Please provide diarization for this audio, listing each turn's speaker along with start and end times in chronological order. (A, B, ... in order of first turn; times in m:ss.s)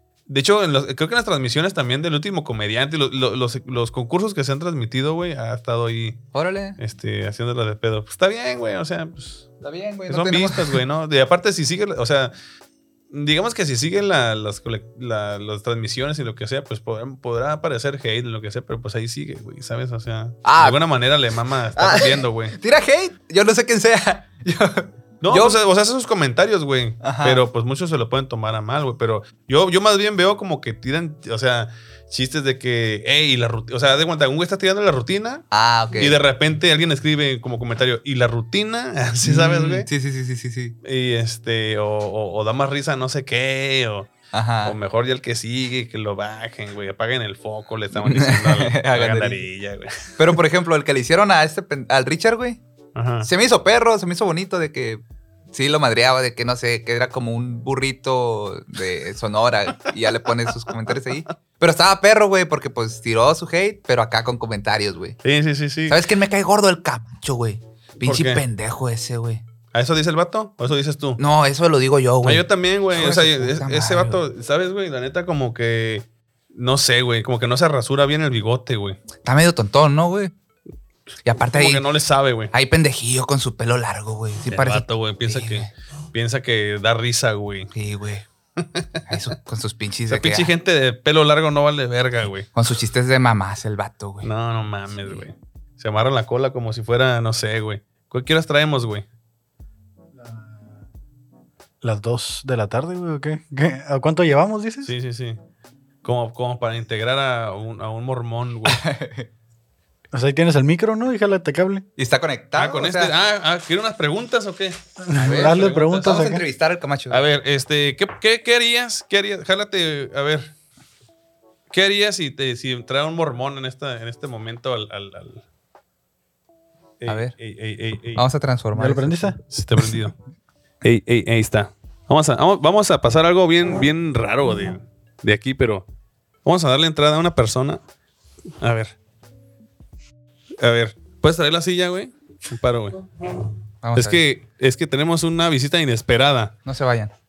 0:00.3-0:06.2 A
0:06.3-0:06.8 B
0:06.8-0:09.5 A
0:09.6-0:10.8 B
0:10.1-0:12.3 A
0:13.1-0:22.6 A
0:20.4-0:20.8 B
0:21.7-0:25.6 B
0:25.2-0:35.4 A
0:27.0-0:27.4 B
0:35.5-0:36.2 B
0:36.0-0:39.9 A
0:39.2-0:40.8 B
0:40.8-0:44.1 A
0:44.3-0:44.8 B
0:44.6-0:50.4 A
0:47.9-0:49.4 B
0:50.2-0:52.6 B
0:52.9-0:53.3 A
0:53.2-1:05.2 B
1:05.2-1:06.0 A
1:05.9-1:09.4 B
1:08.0-1:08.4 A
1:09.7-1:11.2 A
1:11.2-1:14.2 B
1:12.2-1:19.0 A
1:19.2-1:20.3 B
1:21.2-1:21.8 B
1:21.5-1:22.5 A
1:22.5-1:25.7 B
1:24.5-1:27.7 A
1:27.7-1:28.2 B
1:28.6-1:28.9 A
1:29.1-1:30.5 B
1:30.1-1:32.5 A
1:32.5-1:34.3 B
1:34.2-1:39.0 A
1:34.9-1:35.2 B
1:40.2-1:40.5 C
1:41.8-1:44.9 C
1:44.8-1:45.4 A
1:46.0-1:48.8 A
1:48.6-1:49.3 B
1:50.1-1:51.8 C
1:52.0-1:53.1 B
1:52.6-1:56.2 A
1:55.0-1:56.4 C
1:55.1-1:57.2 B
1:57.1-2:00.5 A
2:01.7-2:05.4 A
2:07.0-2:08.2 A
2:07.1-2:07.3 B
2:08.2-2:09.3 B
2:08.7-2:09.4 C
2:09.5-2:10.1 A
2:10.8-2:15.8 A
2:16.4-2:17.8 A
2:18.6-2:18.9 A
2:20.6-2:23.0 A
2:23.8-2:24.2 B
2:23.9-2:26.5 A
2:26.6-2:27.1 B